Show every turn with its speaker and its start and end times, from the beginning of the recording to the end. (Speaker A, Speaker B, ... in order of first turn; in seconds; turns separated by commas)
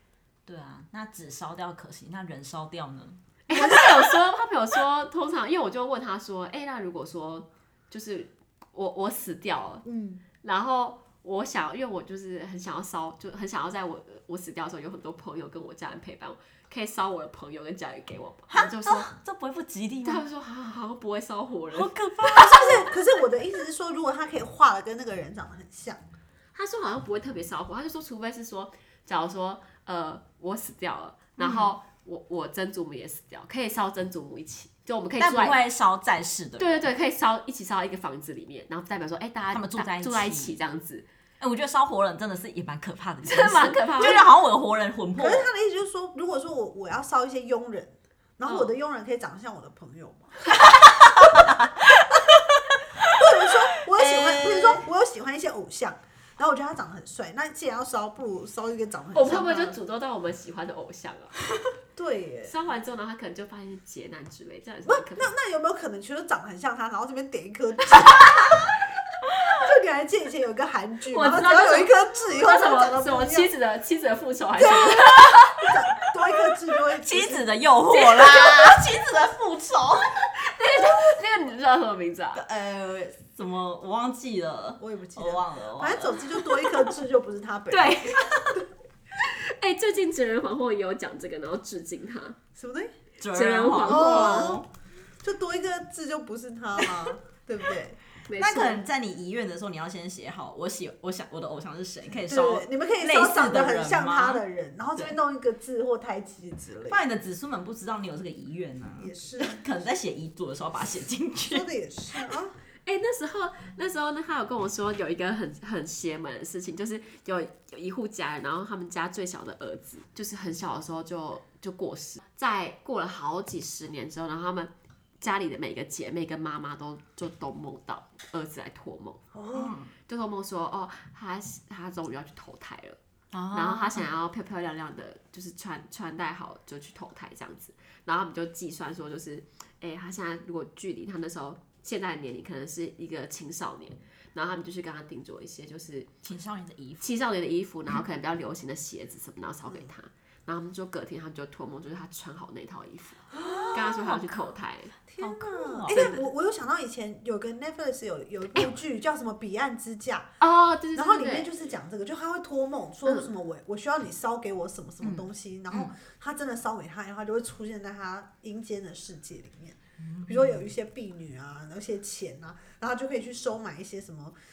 Speaker A: 0.5-3.9, Speaker B: 3.5-9.8, Speaker C: 9.8-10.2, Speaker B: 10.4-19.1, Speaker A: 18.5-20.2, Speaker B: 20.0-21.9, Speaker A: 21.7-23.0, Speaker C: 22.3-26.0, Speaker B: 26.5-35.6, Speaker A: 31.4-31.7, Speaker A: 35.2-36.9, Speaker B: 36.6-41.1, Speaker A: 39.5-40.6, Speaker A: 41.4-45.5, Speaker B: 43.2-44.3, Speaker C: 45.2-50.3, Speaker A: 50.9-53.2, Speaker C: 53.0-59.8, Speaker A: 54.0-54.7, Speaker B: 59.1-61.4, Speaker C: 62.0-62.5, Speaker B: 62.5-65.3, Speaker C: 64.9-68.7, Speaker C: 69.5-73.5, Speaker B: 71.1-75.5, Speaker C: 74.6-77.5, Speaker A: 76.9-80.2, Speaker B: 77.9-78.8, Speaker B: 80.3-82.4, Speaker A: 82.3-86.3, Speaker C: 84.8-88.3, Speaker B: 87.7-88.6, Speaker B: 89.2-92.4, Speaker C: 92.5-92.9, Speaker A: 93.2-94.7, Speaker B: 93.3-94.6, Speaker C: 93.8-94.7, Speaker C: 95.2-98.0, Speaker B: 98.3-98.8, Speaker A: 98.3-104.4, Speaker C: 102.3-107.0, Speaker A: 106.9-111.7, Speaker C: 109.0-109.6, Speaker C: 111.5-112.6, Speaker B: 112.9-129.2, Speaker C: 129.3-129.8, Speaker A: 129.5-129.9, Speaker B: 130.1-133.0, Speaker A: 133.3-134.1, Speaker B: 133.5-146.1, Speaker A: 146.2-147.1, Speaker B: 147.0-154.9, Speaker C: 153.3-154.2, Speaker A: 153.4-154.1, Speaker C: 155.1-160.3, Speaker A: 155.2-156.1, Speaker B: 155.9-156.2, Speaker B: 160.4-161.5, Speaker C: 160.9-174.4, Speaker A: 165.0-165.9, Speaker A: 170.0-170.7